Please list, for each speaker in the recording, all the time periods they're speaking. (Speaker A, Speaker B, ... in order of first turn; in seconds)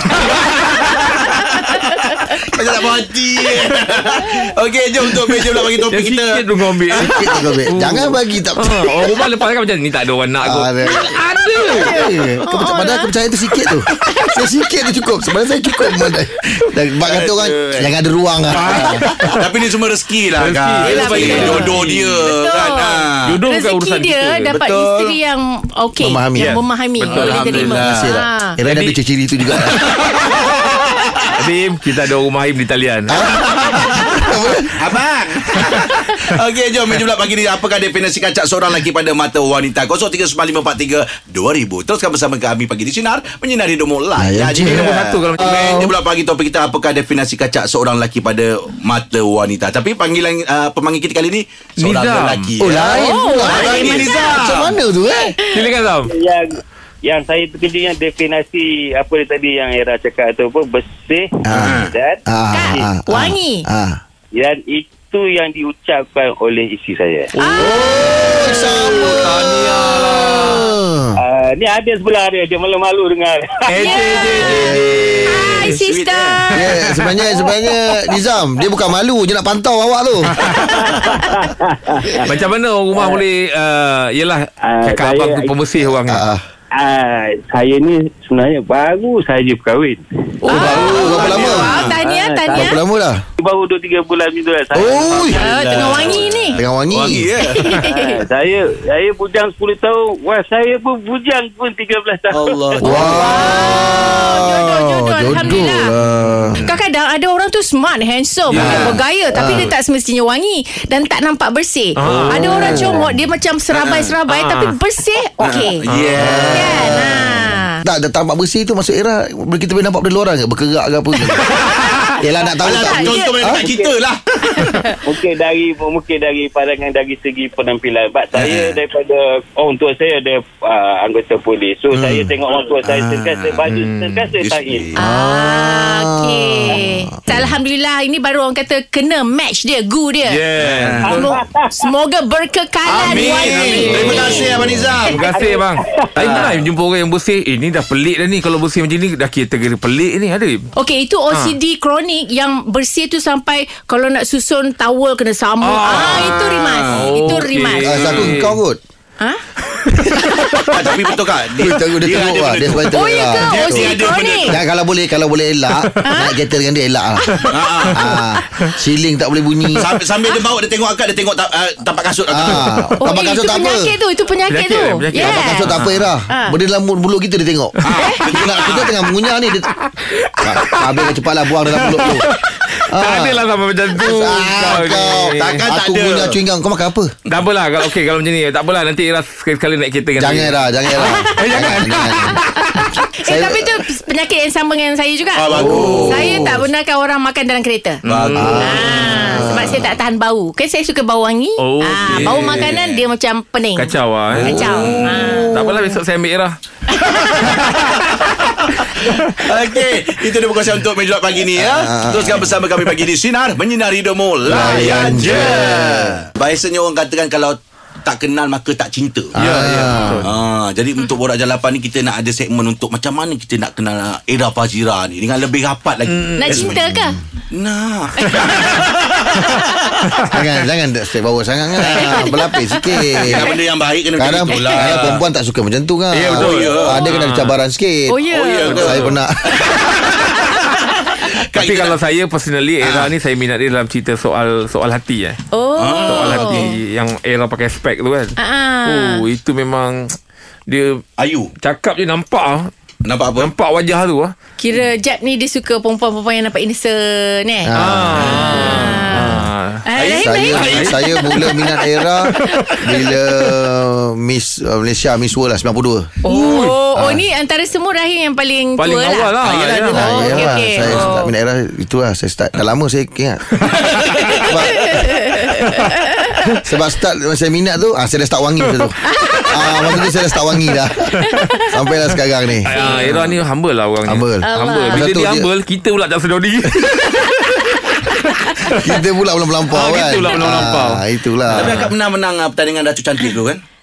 Speaker A: 0.2-7.1, 17.1-17.9, 18.5-23.4, 24.5-25.2, 27.1-28.0, 29.9-31.3, 33.2-54.7, 61.6-61.9, 75.8-76.5, 95.1-97.8, 102.3-103.0, 113.7-114.2, 115.4-116.5, 121.4-124.8, 128.3-128.8, 132.8-133.7, 134.4-134.9, 140.6-141.2, 142.9-145.2, 156.1-157.1, 160.7-162.9, 163.5-164.5, 167.5-168.0, 169.8-172.8, 177.8-178.9, 185.3-186.4, 195.4-196.4, 198.1-198.9, 202.1-203.0, 204.4-205.6, 208.6-219.3, 220.2-226.8, 227.5-229.5, 233.2-235.2, 236.2-237.3, 238.3-240.3, 241.2-242.0, 242.8-243.1, 245.8-246.8, 251.2-251.5, 253.0-253.5, 258.2-258.5, 269.4-270.0, 273.9-274.4, 291.5-293.6
Speaker B: 1.3-2.4, 11.7-13.1, 14.1-14.4, 20.8-28.6, 52.9-54.4, 62.5-63.7, 67.4-69.2, 73.8-76.8, 90.4-92.8, 95.4-96.6, 97.5-98.2, 102.8-105.9, 106.6-115.8, 116.5-117.8, 122.6-123.4, 124.5-125.0, 135.0-140.4, 141.1-144.5, 150.8-158.1, 160.1-160.7, 162.9-164.6, 166.0-166.4, 167.2-168.7, 173.0-175.7, 176.3-176.6, 177.9-178.6, 190.9-191.6, 192.6-198.0, 198.6-206.0, 206.9-208.1, 226.4-227.2, 228.2-228.9, 231.8-233.5, 238.1-239.0, 240.4-241.2, 245.5-246.7, 248.4-249.2, 254.6-257.7, 258.3-263.1, 266.2-269.4, 269.9-271.3, 274.4-276.4, 279.0-279.8, 281.2-281.7, 282.7-283.2, 284.4-285.1, 288.4-288.8
Speaker C: 5.9-11.9, 18.5-19.5, 20.4-22.3, 23.2-24.5, 26.4-27.8, 28.6-29.0, 31.3-33.2, 44.6-45.6, 51.8-53.2, 55.5-56.1, 67.3-70.8, 73.7-75.8, 76.7-77.3, 82.2-86.2, 108.5-109.0, 112.0-113.0, 114.3-114.7, 115.8-116.8, 133.7-134.3, 140.3-141.4, 142.9-150.7, 151.3-151.6, 155.6-158.6, 174.5-176.1, 180.1-181.2, 181.7-185.6, 187.3-192.9, 198.1-199.4, 201.6-202.8, 203.8-206.6, 207.4-208.0, 219.4-220.4, 226.1-226.5, 234.8-235.2, 236.1-237.6, 238.9-239.1, 241.5-245.4, 246.1-250.2, 250.7-251.0, 251.6-252.7, 253.4-254.3, 257.8-263.5, 266.2-266.8, 268.8-271.2, 282.6-289.0, 289.7-291.9
Speaker D: 6.9-9.2, 10.4-19.0, 26.0-26.6, 27.7-29.8, 33.1-34.7, 44.2-46.0, 52.6-55.4, 61.5-64.0, 67.6-71.2, 74.5-74.8, 76.5-80.6, 86.1-86.4, 90.5-92.0, 92.5-93.2, 94.7-95.5, 96.5-97.3, 102.8-106.6, 108.5-109.7, 112.5-113.0, 116.2-121.5, 122.2-123.7, 131.9-132.3, 135.0-137.5, 144.2-145.0, 157.8-158.8, 161.6-169.9, 172.3-173.9, 175.2-179.7, 180.4-182.3, 182.9-183.4, 183.9-187.1, 190.2-193.9, 195.5-196.7, 198.3-199.9, 211.6-212.8, 214.4-216.2, 219.3-220.3, 226.9-227.2, 230.3-233.5, 234.2-239.6, 257.6-258.6, 259.2-259.5, 260.1-266.1, 267.0-267.2, 269.9-273.7, 274.4-275.0, 276.6-283.3, 284.1-285.5, 288.7-291.8
Speaker E: 56.1-62.2, 64.3-67.3, 71.2-75.2, 80.8-82.4, 82.9-83.2, 84.6-85.7, 86.7-92.8, 93.4-96.1, 97.8-103.5, 123.6-123.9, 125.0-134.9, 141.1-141.8, 145.3-146.6